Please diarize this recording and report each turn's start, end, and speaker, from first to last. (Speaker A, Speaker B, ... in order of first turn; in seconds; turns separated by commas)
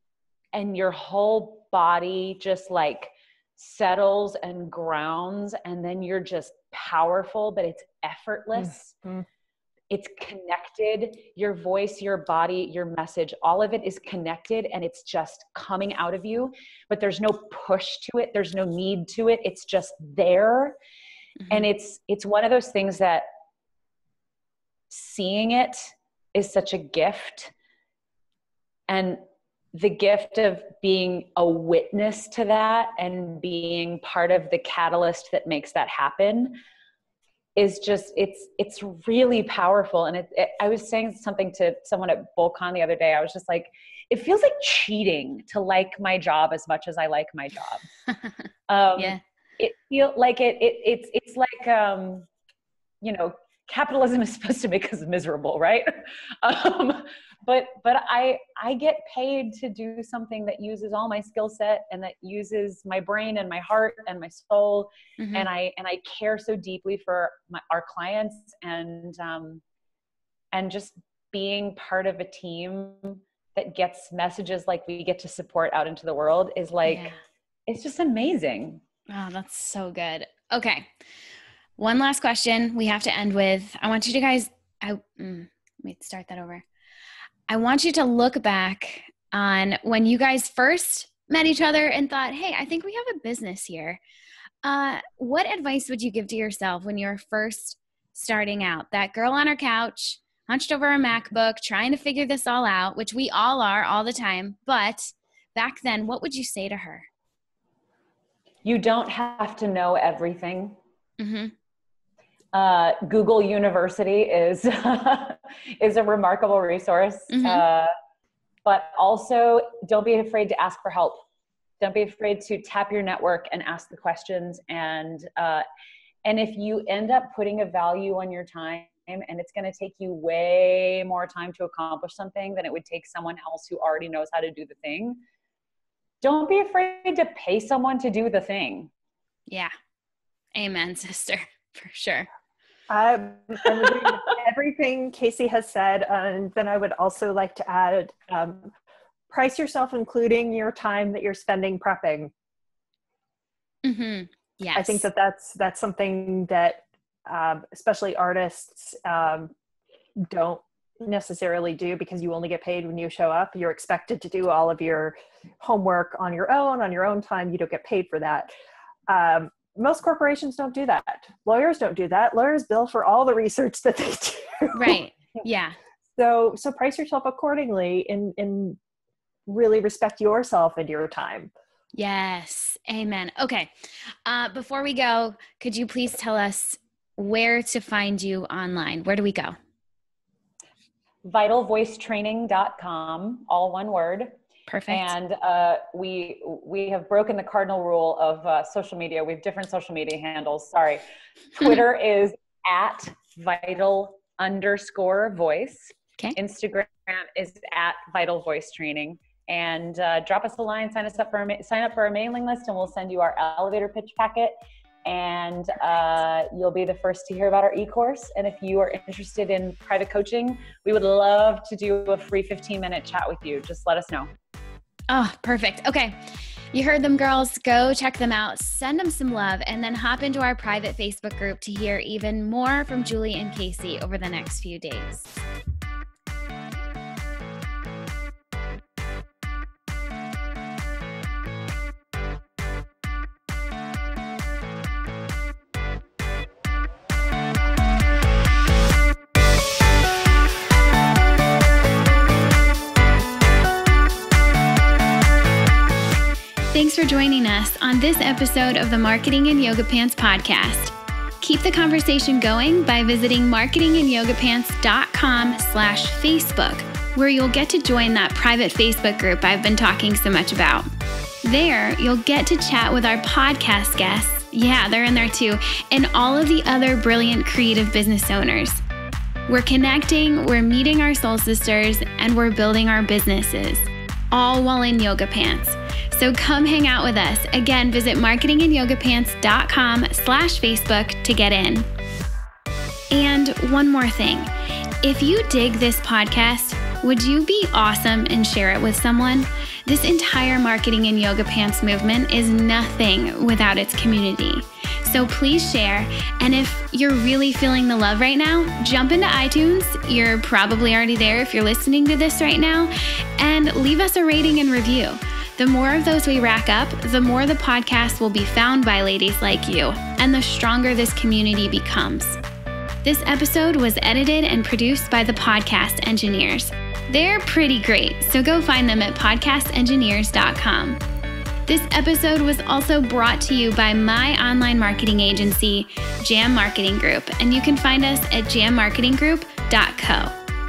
Speaker A: 0.5-9.0, Speaker A: 9.9-20.8, Speaker A: 21.5-23.3, Speaker A: 24.9-27.5, Speaker A: 28.9-29.2, Speaker A: 29.7-36.6, Speaker A: 37.5-47.9, Speaker A: 48.7-52.3, Speaker A: 53.0-69.6, Speaker B: 65.2-65.5, Speaker A: 70.5-77.1, Speaker B: 76.8-77.2, Speaker A: 77.7-78.8, Speaker B: 79.1-80.9, Speaker B: 81.8-86.6, Speaker B: 87.5-94.0, Speaker B: 94.6-107.1, Speaker A: 108.6-110.8, Speaker B: 111.2-111.5, Speaker A: 112.5-117.9, Speaker B: 117.3-117.6, Speaker A: 118.6-121.2, Speaker A: 121.8-125.6, Speaker A: 126.2-135.2, Speaker A: 136.2-138.9, Speaker B: 140.5-142.3, Speaker C: 142.9-148.7, Speaker C: 149.3-152.3, Speaker B: 153.8-155.1, Speaker C: 154.7-159.5, Speaker C: 160.2-168.5, Speaker C: 169.1-175.0, Speaker B: 174.7-175.8, Speaker C: 176.2-178.8, Speaker C: 179.5-181.5, Speaker B: 181.9-189.6, Speaker A: 191.2-194.3, Speaker B: 194.7-195.1, Speaker A: 194.9-201.0, Speaker A: 201.5-224.3, Speaker B: 225.1-235.3, Speaker B: 256.7-270.9, Speaker B: 271.4-278.8, Speaker B: 279.5-291.9, Speaker B: 293.1-294.5, Speaker B: 295.0-322.4, Speaker B: 323.0-331.0, Speaker B: 331.7-340.3